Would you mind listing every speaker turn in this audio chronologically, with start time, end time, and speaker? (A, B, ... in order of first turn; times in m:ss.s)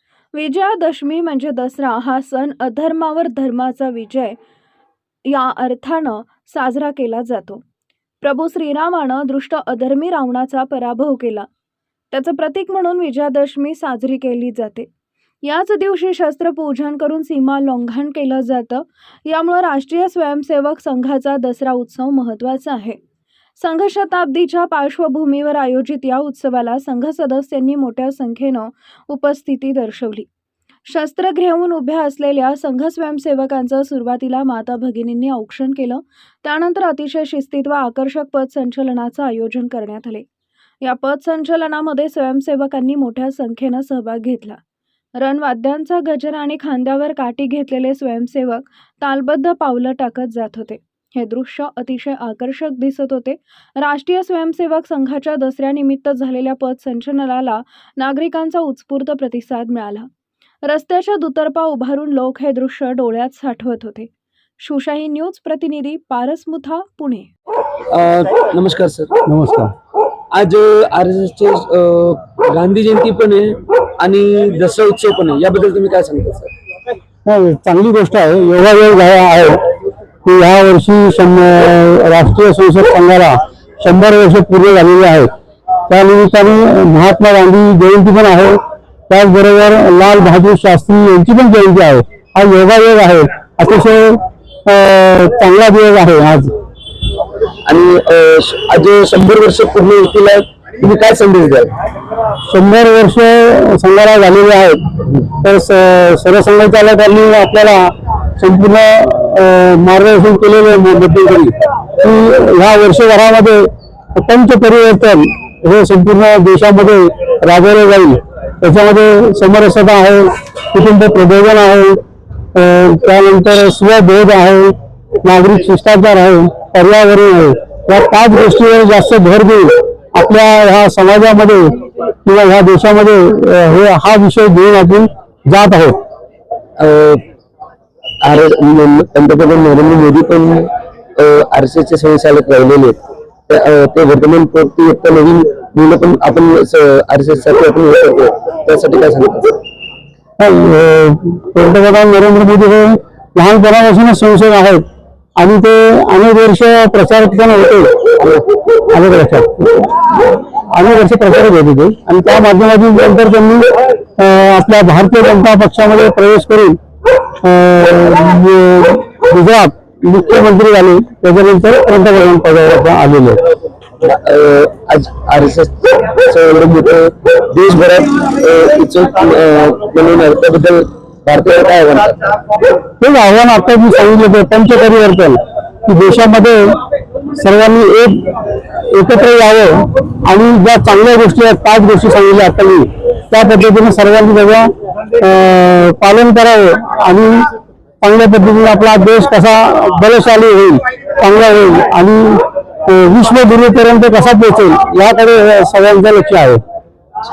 0:00.3-0:04.4 A
0:05.2-0:07.6 A
0:08.2-0:11.5 A
0:12.1-0:14.9 A
0:15.4-0:23.0 A
0:23.6-0:30.2 A
0:30.9-0:40.2 A
0:40.8-0:44.6 A
0:45.2-1:00.1 A
1:00.6-1:04.1 A
1:04.6-1:07.3 A
1:07.9-1:09.1 B
1:09.2-1:09.7 C
1:10.3-1:16.5 B
1:17.2-1:19.6 C
1:20.2-1:25.3 C
1:25.9-1:36.5 C
1:37.6-1:41.7 B
1:42.5-1:47.8 C
1:48.4-2:02.0 C
2:02.5-2:16.0 C
2:16.8-2:17.2 B
2:18.2-2:29.6 B
2:30.4-2:34.8 C
2:35.4-2:38.0 C
2:38.9-2:46.8 C
2:47.4-2:53.4 C
2:54.0-3:02.2 B
3:03.0-3:06.7 C
3:07.3-3:08.3 C
3:08.9-3:17.4 C
3:18.0-3:26.6 C